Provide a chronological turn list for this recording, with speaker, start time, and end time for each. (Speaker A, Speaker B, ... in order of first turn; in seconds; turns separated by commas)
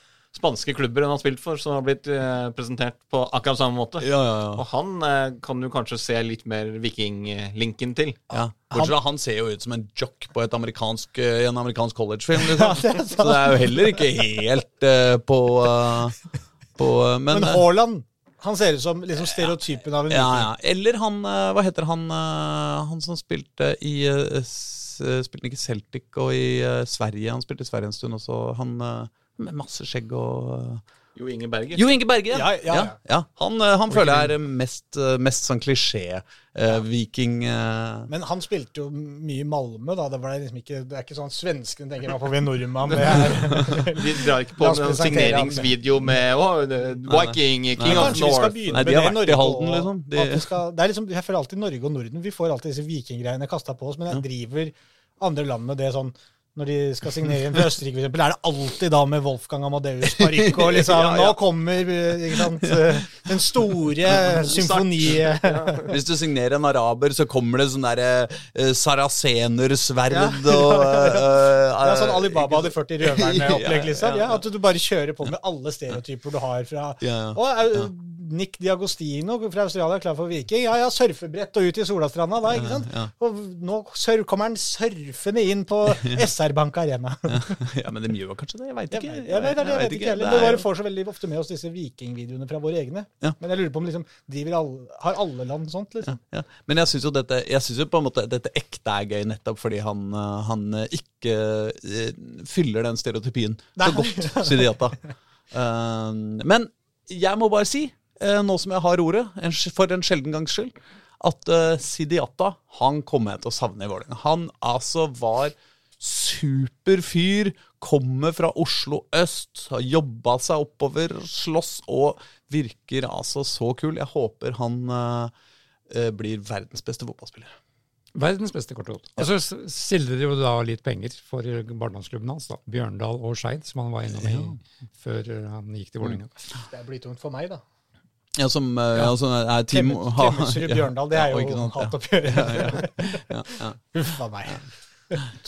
Speaker A: 0.3-8.2, Speaker B: 4.0-4.6, Speaker C: 8.3-8.9, Speaker B: 8.3-16.2, Speaker C: 12.3-14.0, Speaker B: 16.8-17.6, Speaker C: 17.3-20.5, Speaker B: 20.1-30.8, Speaker A: 31.1-31.8, Speaker B: 31.7-38.1, Speaker C: 32.3-32.9, Speaker C: 38.1-45.7, Speaker A: 43.0-48.9, Speaker B: 47.1-50.5, Speaker C: 47.8-65.9, Speaker B: 60.0-61.4, Speaker B: 62.3-63.1, Speaker B: 64.1-64.5, Speaker A: 64.5-65.9, Speaker B: 65.9-74.4, Speaker C: 70.1-87.6, Speaker B: 77.0-77.8, Speaker B: 82.5-83.1, Speaker B: 87.3-90.7, Speaker C: 88.9-96.2, Speaker B: 96.1-125.3, Speaker C: 103.8-104.7, Speaker B: 125.9-127.5, Speaker D: 128.1-136.3, Speaker B: 134.1-134.5, Speaker C: 136.7-137.6, Speaker B: 138.3-143.8, Speaker C: 139.7-145.2